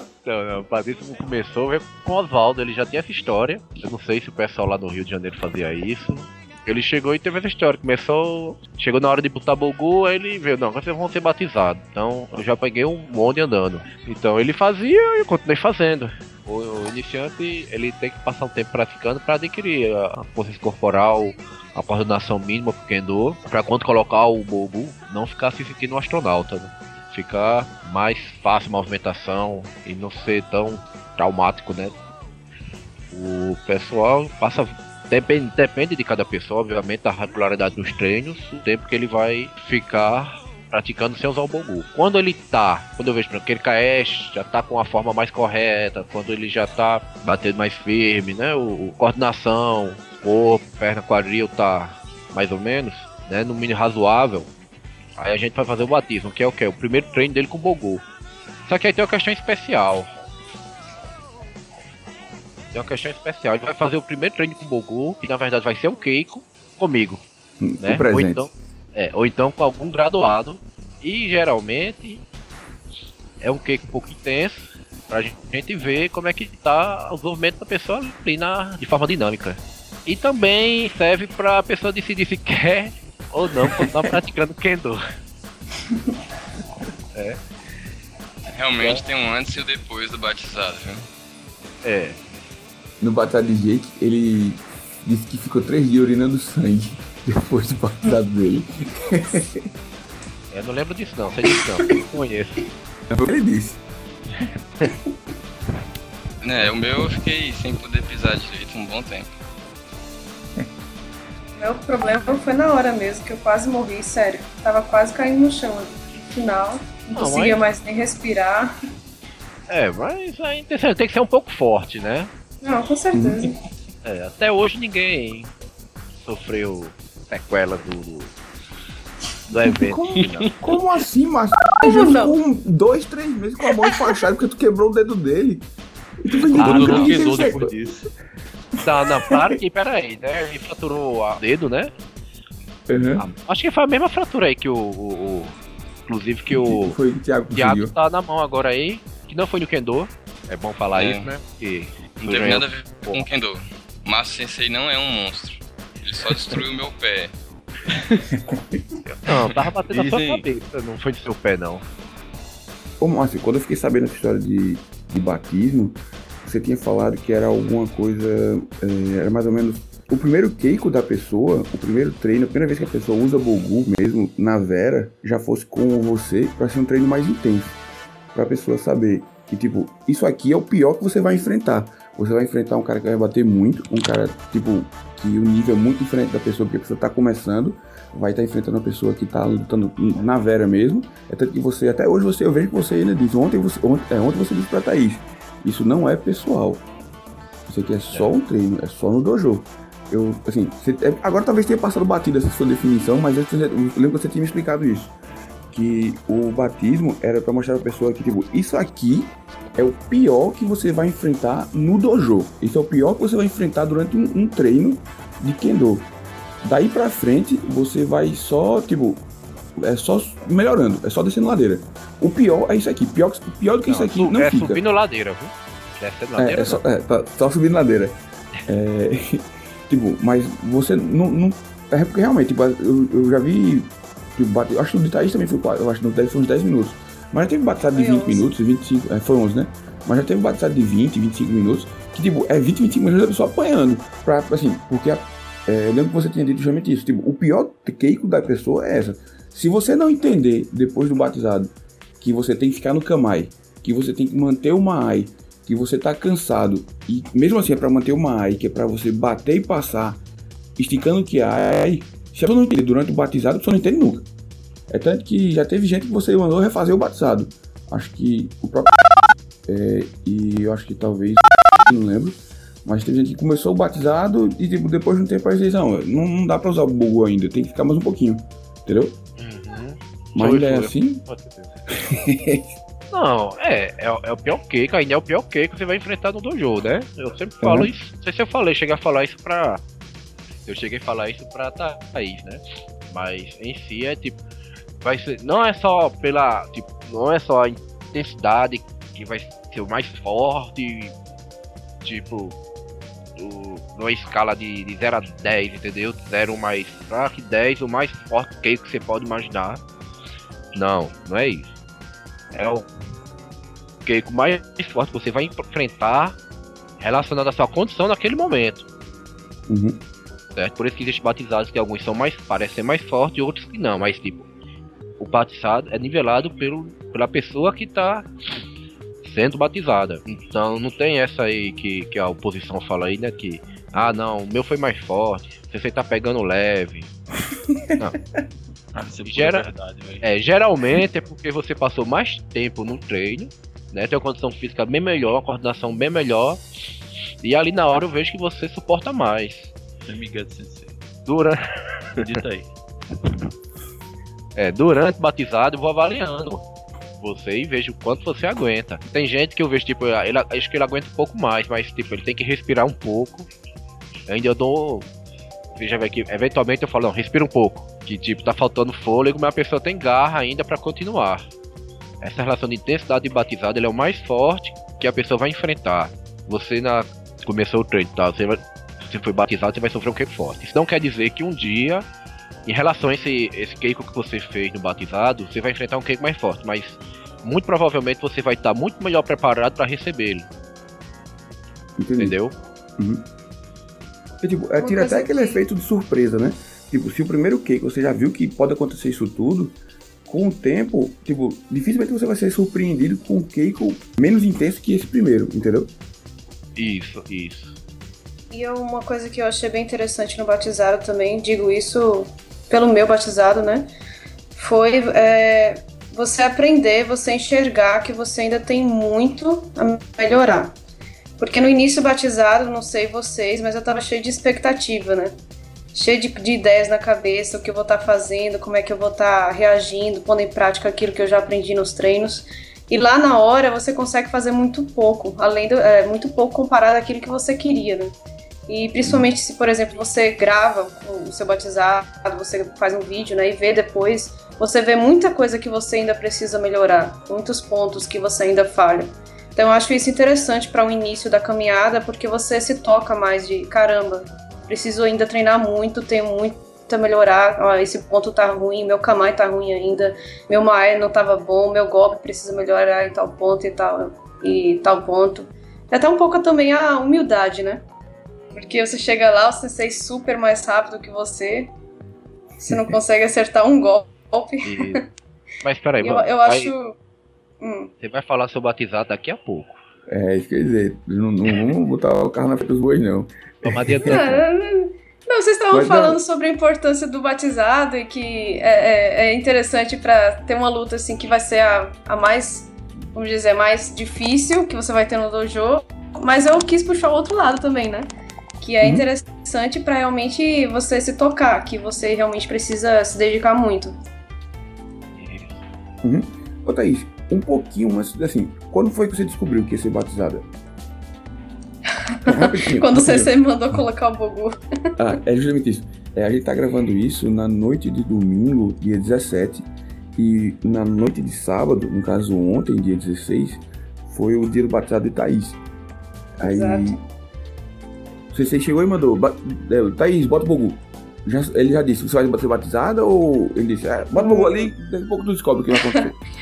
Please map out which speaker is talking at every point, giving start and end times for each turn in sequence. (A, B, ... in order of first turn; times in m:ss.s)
0:00.2-0:32.0 A
0:33.1-0:54.5 A
0:55.2-0:58.1 A
0:58.7-1:00.1 A
1:02.7-1:07.2 A
1:07.6-1:08.5 B
1:07.8-1:12.2 A
1:13.4-1:25.0 A
1:28.5-1:31.1 C
1:31.8-1:32.2 A
1:33.0-1:39.7 B
1:40.5-1:42.7 A
1:41.5-1:41.9 B
1:43.1-1:43.8 B
1:46.4-1:49.3 C
1:51.6-1:58.7 D
1:57.2-1:57.6 A
1:59.7-2:02.3 A
2:02.6-2:03.6 D
2:03.1-2:03.5 B
2:04.0-2:05.5 A
2:06.2-2:08.4 A
2:09.5-2:10.5 A
2:09.6-2:15.7 B
2:11.8-2:12.4 D
2:16.2-2:17.8 B
2:16.4-2:18.1 E
2:16.6-2:17.2 A
2:18.8-2:21.9 A
2:19.3-2:19.6 B
2:22.9-2:23.3 B
2:23.2-2:25.6 A
2:26.1-2:27.0 A
2:26.5-2:27.9 B
2:27.5-2:33.3 A
2:30.9-2:31.3 C
2:32.2-2:37.3 C
2:37.9-2:38.3 E
2:39.1-2:41.8 A
2:39.9-2:40.5 E
2:43.0-2:57.8 B
2:58.3-3:16.8 B
3:17.7-3:25.1 B
3:25.7-3:36.1 B
3:36.6-3:39.2 B
3:39.8-3:44.8 B
3:43.9-3:46.8 A
3:46.4-4:20.2 B
3:57.9-3:58.5 D
4:20.8-4:24.3 B
4:24.9-4:29.0 B
4:29.7-4:39.2 B
4:39.4-4:42.1 A
4:40.4-4:41.2 B
4:41.9-4:42.7 B
4:43.1-4:49.8 A
4:47.6-4:47.9 B
4:50.6-4:54.4 A
4:55.0-5:01.1 A
5:02.0-5:02.6 A
5:03.4-5:09.8 A
5:10.7-5:11.7 A
5:12.5-5:12.9 A
5:14.0-5:16.4 A
5:17.0-5:18.9 A
5:19.7-5:20.0 B
5:20.6-5:24.5 A
5:25.2-5:28.3 A
5:29.2-5:37.1 A
5:37.7-5:38.0 B
5:38.9-5:40.2 E
5:39.3-5:39.7 A
5:40.2-5:46.6 A
5:47.4-5:49.7 A
5:50.0-5:51.0 E
5:51.3-5:51.6 A
5:52.2-5:52.4 A
5:52.2-5:52.7 E
5:54.6-5:56.7 A
5:57.2-6:03.5 A
6:04.3-6:05.1 A
6:05.7-6:11.5 A
6:12.2-6:22.1 A
6:22.7-6:30.5 A
6:32.0-6:32.4 B
6:32.2-6:32.6 A
6:33.0-6:33.2 B
6:34.4-6:45.9 B
6:34.8-6:35.6 D
6:46.8-6:47.8 A
6:48.5-6:53.9 D
6:54.6-7:00.8 D
7:01.4-7:05.4 D
7:05.9-7:18.1 D
7:18.7-7:47.8 D
7:48.6-7:51.7 D
7:52.6-7:54.9 D
7:52.7-7:53.0 B
7:54.6-7:55.1 A
7:55.6-7:56.7 A
7:56.0-7:57.0 D
7:57.6-7:57.9 D
7:58.0-7:59.8 A
8:00.1-8:04.4 B
8:03.6-8:04.4 A
8:04.0-8:24.0 D
8:05.7-8:06.2 B
8:18.8-8:19.1 B
8:25.2-8:25.6 A
8:26.0-8:30.5 B
8:32.2-8:34.6 D
8:32.3-8:33.4 B
8:35.0-8:45.6 B
8:46.4-8:47.0 B
8:46.4-8:47.0 D
8:48.3-8:56.2 B
8:54.2-8:54.7 D